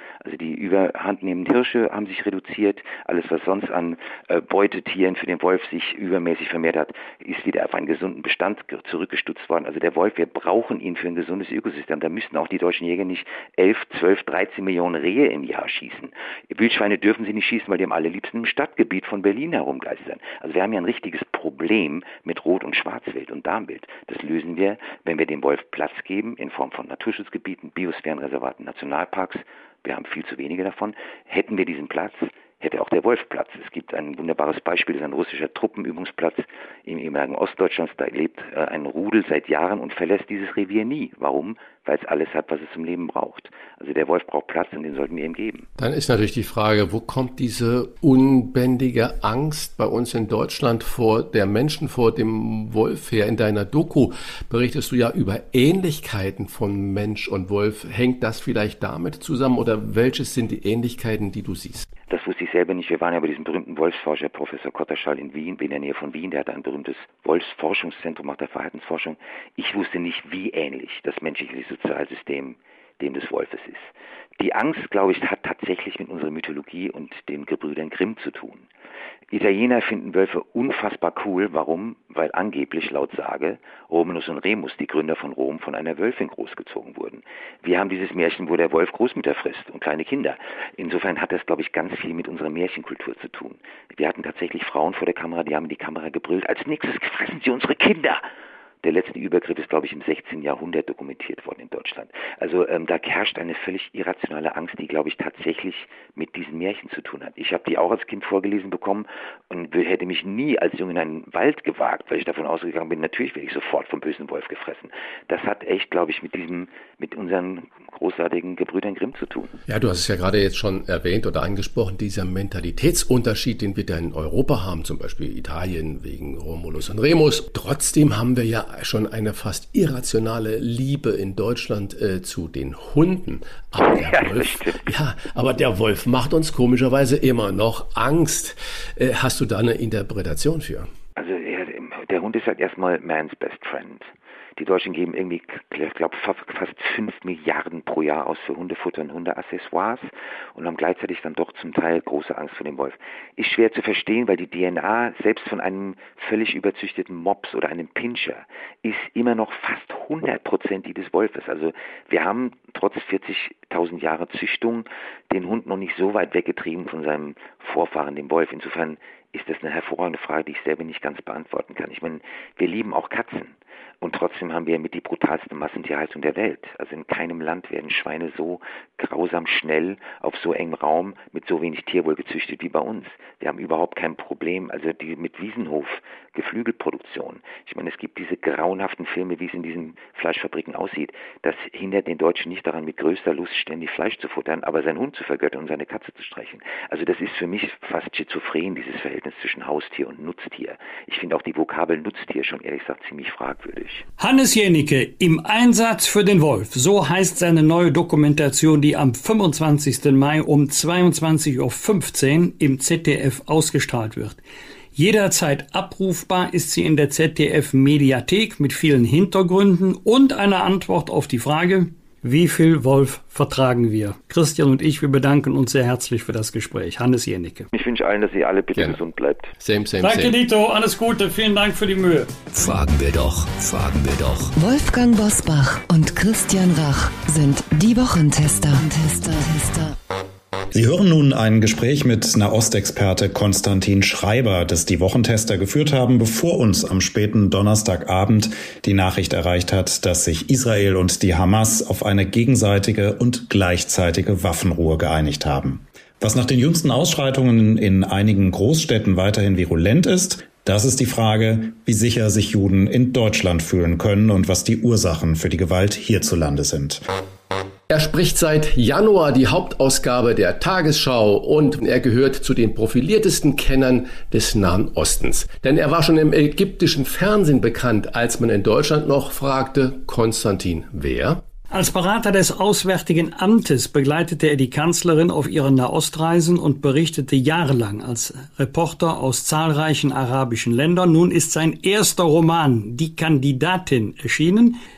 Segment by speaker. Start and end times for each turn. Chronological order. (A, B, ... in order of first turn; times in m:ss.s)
0:00.2-0:45.7 A
0:45.8-1:01.9 B
1:02.1-1:18.7 A
1:19.3-1:38.2 A
1:38.8-1:59.6 A
1:59.7-2:20.9 B
2:13.8-2:14.8 A
2:21.2-3:24.0 A
3:24.2-3:34.4 C
3:35.0-3:47.7 C
3:47.7-3:49.6 A
3:49.6-3:50.4 B
3:50.0-3:52.4 C
3:52.5-3:54.5 D
3:54.6-4:00.0 E
4:00.7-4:27.0 F
4:27.9-4:41.4 B
4:41.7-4:54.8 C